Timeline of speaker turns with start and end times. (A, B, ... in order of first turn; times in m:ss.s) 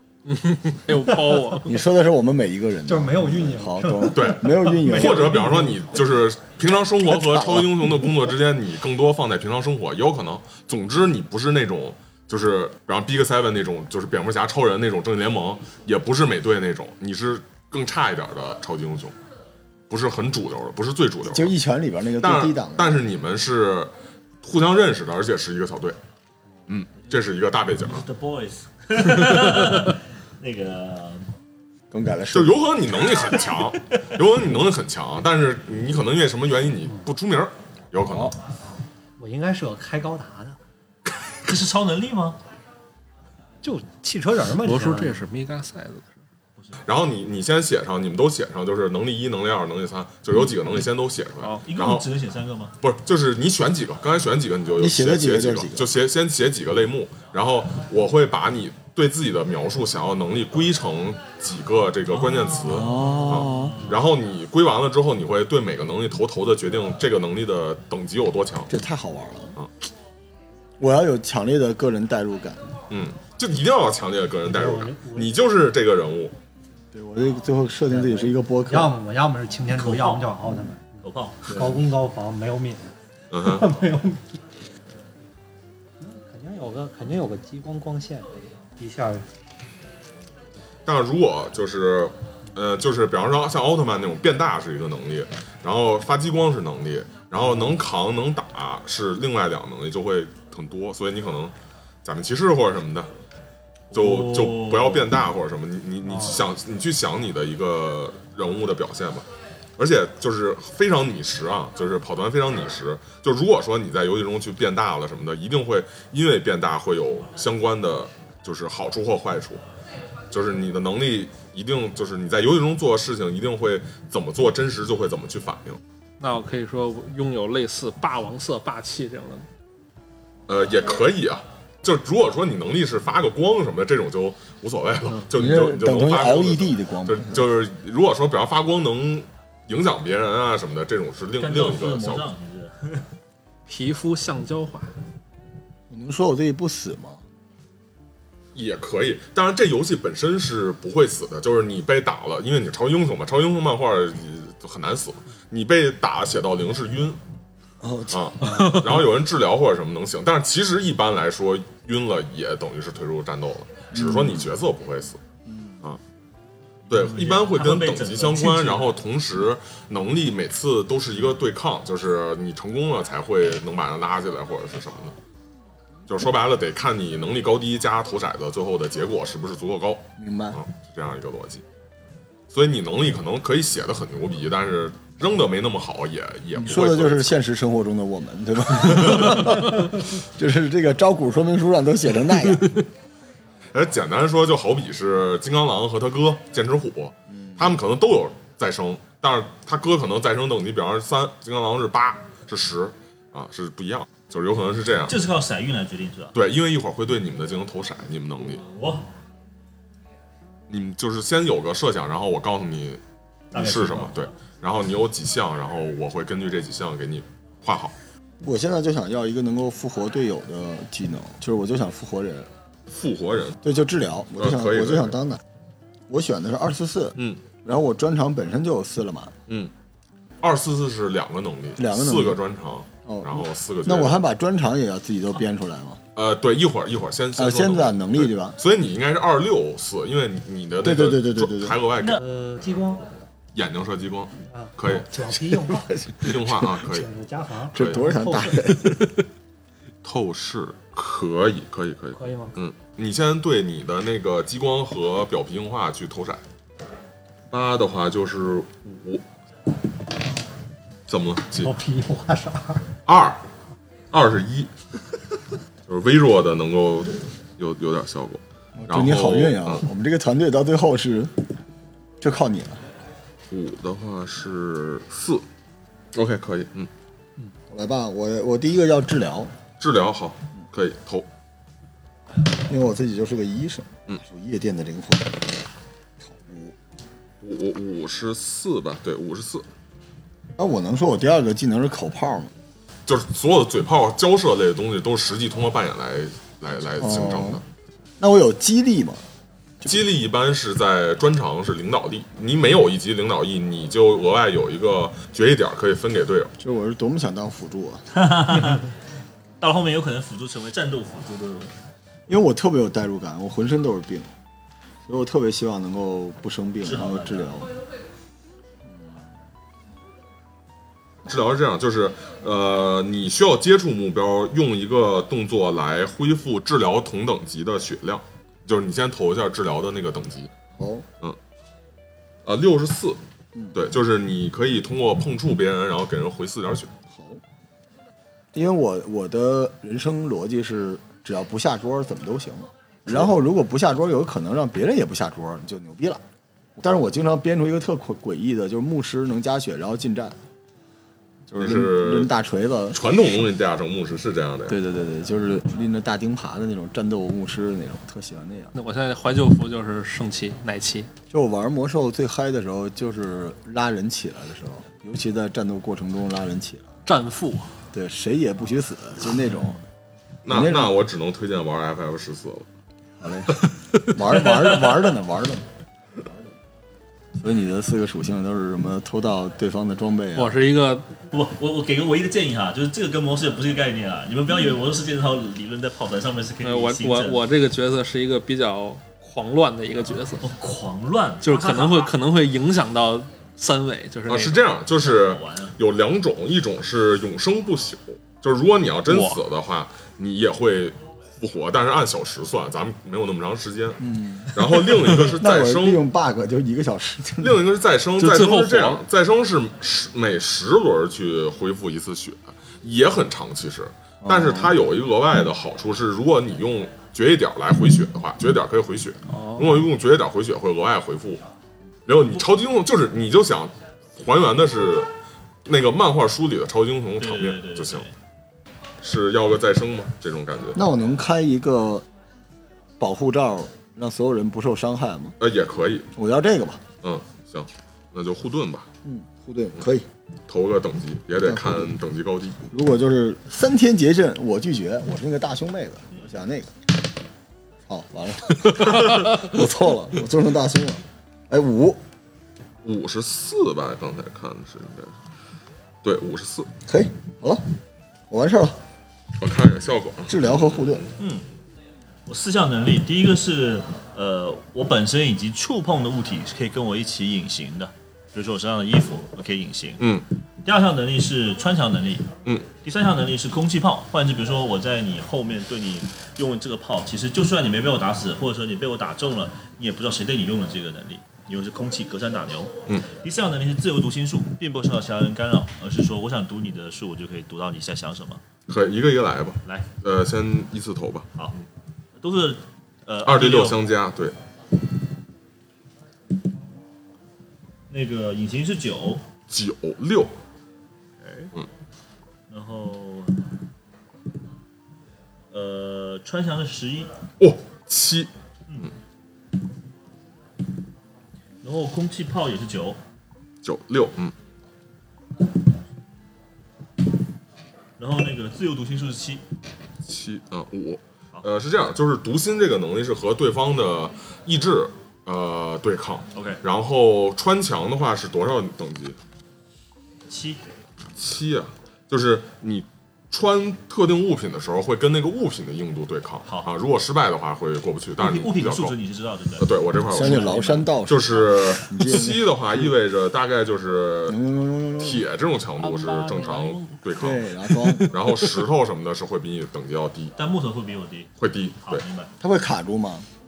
0:00.3-0:01.7 A
0:01.6-0:05.7 B
0:02.9-0:05.8 C
0:04.1-0:19.1 D
0:07.0-0:08.1 B
0:19.9-0:21.5 D
0:21.2-0:23.0 B
0:22.2-0:26.0 D
0:26.7-0:28.0 D
0:27.8-0:31.3 E
0:31.9-0:32.6 B
0:32.3-0:38.4 D
0:38.0-0:38.3 B
0:39.2-0:40.6 C
0:41.4-0:42.4 E
0:43.6-0:45.2 C
0:44.6-0:46.2 A
0:46.8-0:52.1 D
0:51.6-0:52.8 E
0:52.8-1:08.7 D
0:54.8-0:55.9 B
1:02.1-1:04.0 E
1:02.6-1:03.9 B
1:08.7-1:09.6 B
1:10.8-1:12.8 B
1:12.9-1:16.3 D
1:14.5-1:15.4 C
1:16.9-1:18.9 B
1:17.9-1:24.4 C
1:19.7-1:20.4 E
1:21.0-1:21.5 E
1:23.3-1:23.7 D
1:26.0-1:29.2 C
1:30.9-1:41.5 D
1:42.0-1:43.1 D
1:43.9-1:45.1 E
1:43.9-1:49.2 D
1:49.8-1:59.6 D
2:00.3-2:05.8 D
2:06.2-2:09.4 A
2:10.5-2:22.3 D
2:15.3-2:17.5 B
2:21.4-2:23.1 E
2:23.7-2:24.9 A
2:25.9-2:27.2 B
2:28.5-2:37.2 D
2:37.8-2:38.7 B
2:38.1-2:45.2 D
2:38.5-2:38.8 A
2:43.9-2:44.5 B
2:45.5-2:45.8 B
2:46.9-2:48.9 E
2:46.9-2:55.2 D
2:56.1-3:01.6 D
3:00.2-3:00.6 B
3:02.5-3:07.4 D
3:06.6-3:12.8 B
3:13.7-3:25.2 D
3:17.3-3:17.7 B
3:25.1-3:26.4 E
3:26.4-3:28.6 D
3:28.4-3:29.1 E
3:30.7-3:33.0 D
3:33.5-3:34.3 E
3:33.5-3:37.9 D
3:38.4-3:42.5 B
3:42.9-3:43.6 D
3:43.6-3:45.4 B
3:44.4-3:45.2 D
3:46.1-3:49.4 B
3:47.2-3:47.4 D
3:50.4-3:54.2 D
3:51.8-3:52.4 B
3:53.0-3:56.0 B
3:56.1-4:02.2 D
3:57.4-3:58.6 B
4:00.8-4:01.8 B
4:02.1-4:03.1 C
4:03.5-4:05.2 D
4:04.4-4:06.1 C
4:06.0-4:06.5 B
4:06.2-4:07.1 D
4:06.7-4:08.8 C
4:07.7-4:09.1 B
4:07.7-4:08.0 D
4:10.0-4:16.4 D
4:12.1-4:12.5 C
4:17.5-4:19.2 D
4:21.1-4:21.7 D
4:21.6-4:22.9 C
4:23.1-4:23.4 D
4:24.1-4:24.7 D
4:25.9-4:29.8 D
4:28.8-4:31.4 B
4:32.2-4:32.8 B
4:33.5-4:35.4 D
4:36.1-4:36.9 D
4:37.7-4:39.5 B
4:39.8-4:41.2 D
4:42.6-4:45.6 B
4:46.2-4:46.7 B
4:47.4-4:49.6 D
4:50.6-4:52.5 B
4:53.1-4:57.6 D
4:57.0-4:57.6 B
4:58.2-4:59.2 B
4:59.8-5:06.5 D
5:06.6-5:08.0 B
5:08.1-5:08.9 E
5:09.6-5:11.7 E
5:12.3-5:14.3 B
5:15.1-5:17.7 B
5:16.8-5:17.5 E
5:18.9-5:19.3 B
5:21.2-5:30.5 D
5:30.8-5:31.1 B
5:32.4-5:33.2 D
5:33.7-5:36.9 D
5:37.1-5:37.4 B
5:38.5-5:46.2 B
5:46.8-5:50.4 B
5:51.5-5:53.0 B
5:51.5-5:52.3 D
5:52.9-5:54.8 D
5:54.7-5:58.7 B
5:58.7-6:01.1 A
6:01.3-6:07.0 B
6:07.1-6:07.7 A
6:07.9-6:09.8 B
6:10.4-6:12.7 D
6:10.5-6:10.9 B
6:13.2-6:15.6 B
6:17.4-6:20.6 B
6:20.4-6:21.1 A
6:21.3-6:27.4 E
6:26.6-6:30.5 A
6:30.4-6:32.1 E
6:31.4-6:34.6 A
6:34.3-6:46.0 D
6:35.0-6:35.8 E
6:39.1-6:39.4 A
6:44.0-6:47.6 B
6:47.4-7:01.4 D
6:48.2-6:49.0 A
6:54.2-6:54.7 B
6:59.3-6:59.8 A
7:02.1-7:05.1 D
7:05.6-7:08.1 D
7:07.2-7:08.1 E
7:09.0-7:10.8 D
7:10.7-7:12.1 B
7:13.0-7:15.4 B
7:15.4-7:16.1 D
7:16.1-7:16.8 B
7:17.0-7:18.9 D
7:19.0-7:20.1 B
7:20.5-7:22.7 D
7:21.4-7:21.9 B
7:22.7-7:26.7 B
7:27.9-7:32.0 B
7:32.8-7:35.2 D
7:36.0-7:36.7 D
7:36.8-7:37.6 B
7:38.3-7:38.8 B
7:39.4-7:41.0 D
7:40.3-7:41.1 B
7:41.2-7:41.5 E
7:42.3-7:50.1 E
7:50.0-7:50.2 D
7:50.6-7:52.3 E
7:52.8-8:08.4 E
8:08.7-8:11.3 D
8:12.2-8:13.8 E
8:13.2-8:14.4 D
8:17.9-8:19.2 E
8:19.5-8:20.3 D
8:21.2-8:21.5 E
8:22.5-8:23.4 E
8:25.5-8:27.1 E
8:27.4-8:28.3 D
8:31.6-8:33.0 E
8:33.6-8:34.3 D
8:38.0-8:39.4 E
8:40.0-8:49.2 D
8:46.3-8:46.6 E
8:50.3-8:50.6 E
8:51.2-8:59.0 D
8:58.2-9:00.8 E
8:59.6-9:04.4 D
9:00.1-9:02.9 B
9:04.3-9:05.2 B
9:05.0-9:07.5 D
9:05.8-9:06.9 A
9:07.2-9:08.1 B
9:07.9-9:08.1 A
9:08.1-9:10.4 D
9:10.4-9:12.3 E
9:11.4-9:12.0 D
9:12.4-9:13.3 B